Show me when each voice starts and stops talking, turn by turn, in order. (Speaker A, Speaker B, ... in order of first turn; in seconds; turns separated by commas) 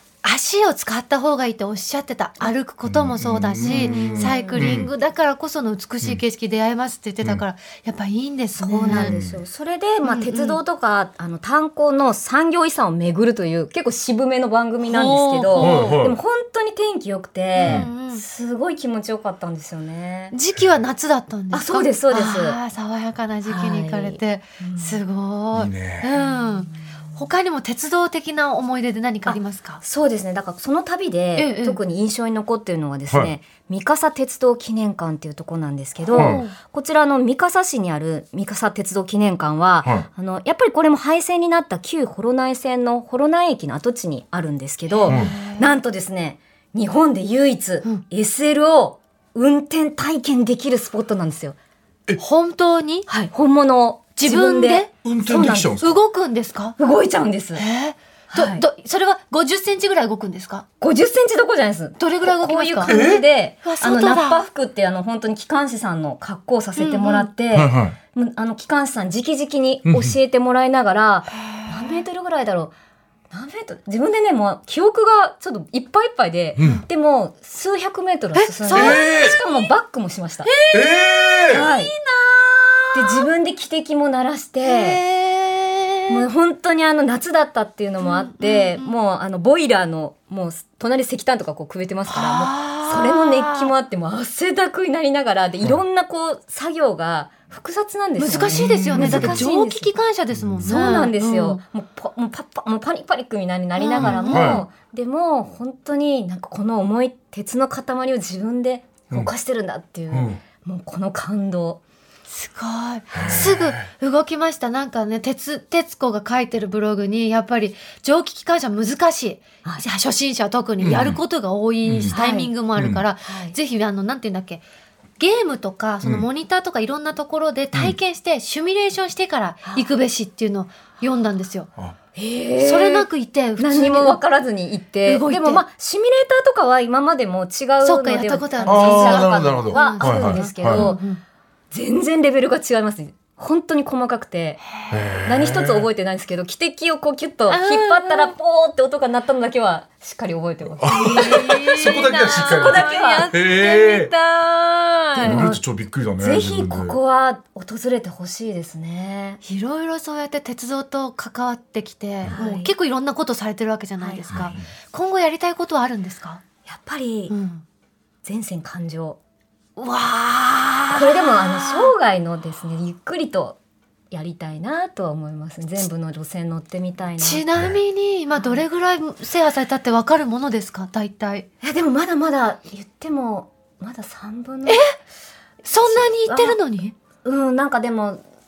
Speaker A: 0.2-9.2, Speaker B: 2.8-4.9, Speaker C: 3.6-4.8, Speaker C: 8.6-20.3, Speaker B: 8.9-9.4, Speaker A: 10.0-10.6, Speaker A: 14.8-16.0, Speaker B: 15.6-16.2, Speaker A: 17.6-18.2, Speaker B: 17.6-17.9, Speaker A: 20.3-29.8, Speaker C: 21.5-22.6, Speaker C: 23.4-25.0, Speaker B: 25.5-26.1, Speaker C: 26.2-26.4, Speaker C: 29.2-51.5, Speaker A: 31.4-31.8, Speaker B: 36.1-36.4, Speaker A: 36.1-36.5, Speaker A: 44.9-45.7, Speaker B: 45.1-45.3, Speaker A: 52.2-53.1, Speaker C: 53.1-55.9, Speaker A: 54.2-54.9, Speaker B: 55.0-56.0, Speaker A: 55.8-56.8, Speaker C: 56.8-57.6, Speaker A: 57.5-60.6, Speaker C: 58.3-58.6, Speaker C: 60.8-72.7, Speaker A: 62.0-63.0, Speaker B: 62.8-63.2, Speaker A: 63.6-64.4, Speaker A: 66.8-67.3, Speaker B: 67.5-68.0, Speaker B: 69.8-70.1, Speaker A: 71.4-72.0, Speaker C: 73.3-80.5, Speaker B: 76.6-76.8, Speaker A: 76.6-76.8, Speaker A: 78.3-79.6, Speaker B: 78.7-79.4, Speaker A: 80.4-83.3, Speaker B: 80.7-81.7, Speaker C: 81.5-81.9, Speaker C: 82.9-85.0, Speaker A: 84.6-86.2, Speaker C: 86.1-100.0, Speaker A: 88.0-88.9, Speaker A: 92.1-93.7, Speaker A: 98.2-101.6, Speaker B: 98.9-99.4, Speaker B: 100.3-100.8, Speaker C: 100.6-111.8, Speaker A: 103.8-104.6, Speaker B: 104.0-104.6, Speaker B: 110.1-110.4, Speaker A: 112.3-124.6, Speaker C: 113.1-113.5, Speaker B: 113.1-113.8, Speaker B: 120.8-121.2, Speaker B: 121.8-122.1, Speaker C: 122.1-122.5, Speaker B: 122.8-123.0, Speaker C: 123.2-123.5, Speaker A: 125.2-131.7, Speaker C: 132.1-133.1, Speaker A: 132.6-134.2, Speaker C: 133.6-141.0, Speaker A: 135.1-135.6, Speaker A: 137.8-141.2, Speaker B: 138.7-140.9, Speaker C: 141.7-144.6, Speaker B: 144.9-145.9, Speaker C: 145.2-153.3, Speaker A: 147.5-148.3, Speaker B: 150.8-154.1, Speaker A: 150.8-155.5, Speaker C: 155.1-155.6, Speaker B: 155.2-157.0, Speaker C: 156.2-159.4, Speaker A: 159.4-166.4, Speaker C: 162.3-162.7, Speaker C: 164.0-164.6, Speaker B: 164.3-164.6, Speaker C: 166.7-167.3, Speaker A: 167.3-167.6, Speaker C: 168.2-169.2, Speaker A: 169.8-171.9, Speaker C: 170.9-173.6, Speaker C: 174.1-177.5, Speaker A: 177.2-181.5, Speaker C: 178.4-178.6, Speaker C: 181.6-184.9, Speaker A: 184.7-184.9, Speaker A: 185.6-186.9, Speaker C: 185.8-186.6, Speaker C: 187.2-188.2